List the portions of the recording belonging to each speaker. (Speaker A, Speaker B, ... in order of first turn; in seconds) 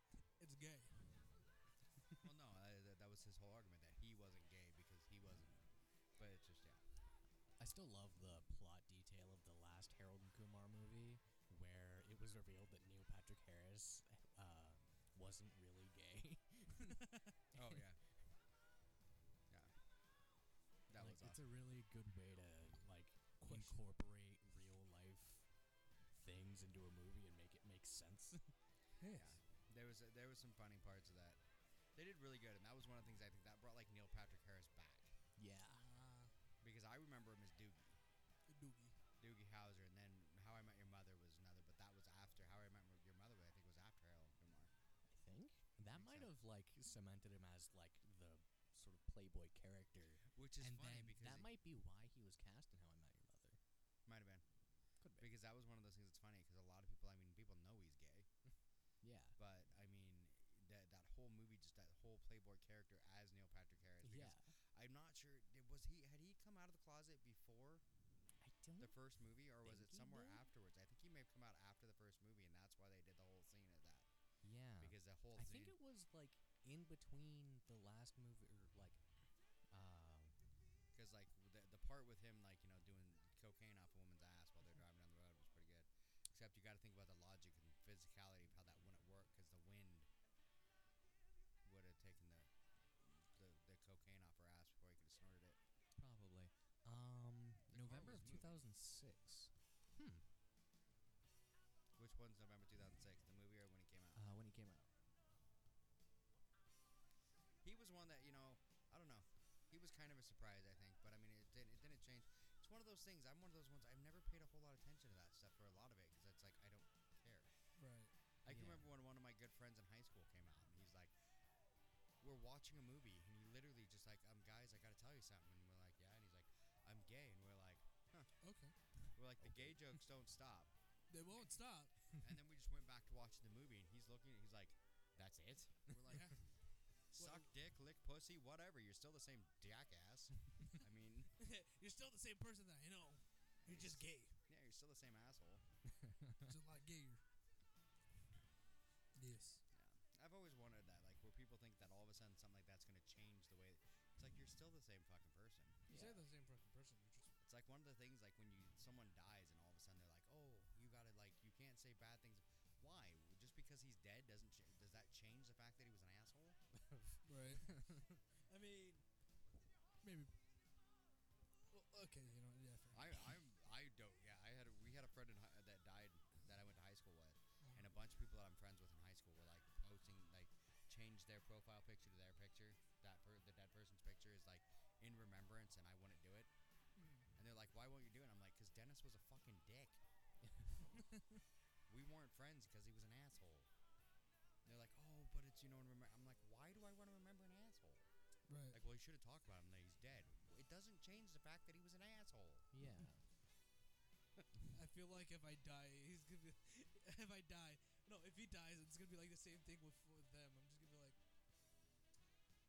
Speaker A: 0.4-1.4, 23.4-23.8, 29.0-29.4, 35.7-36.3, 38.5-39.0, 117.8-118.1, 128.4-128.8, 131.1-132.2, 136.1-136.4, 137.2-137.5, 141.4-144.4, 146.4-147.2, 149.2-149.6, 155.9-157.3, 167.2-169.1, 170.0-170.3, 171.7-173.3, 177.6-177.9, 187.0-187.3, 191.1-191.4, 198.5-198.8, 204.7-211.2
Speaker B: 2.2-6.8, 17.5-18.0, 19.5-19.7, 20.9-21.4, 29.1-31.4, 31.9-35.2, 36.6-38.0, 39.2-44.7, 45.9-46.3, 50.3-51.5, 54.1-54.5, 55.1-58.3, 59.4-67.8, 68.8-74.1, 74.8-75.8, 80.9-90.1, 91.6-95.6, 97.7-98.6, 102.0-104.2, 107.6-117.5, 118.4-121.2, 122.2-128.4, 129.1-130.7, 132.2-136.5, 137.1-141.4, 143.6-145.7, 149.7-155.9, 157.4-166.6, 172.9-186.5, 187.4-190.0, 191.9-193.7, 194.7-198.1, 198.7-202.7
Speaker C: 7.6-17.0, 20.9-25.5, 26.1-28.5, 35.4-35.9, 45.1-53.6, 55.0-55.3, 59.0-59.4, 64.0-64.5, 68.4-69.0, 69.6-70.5, 74.4-79.0, 79.7-80.3, 96.0-100.2, 104.1-104.9, 118.5-118.9, 146.0-146.4, 155.9-156.2, 166.8-168.1, 190.4-190.9, 202.7-203.3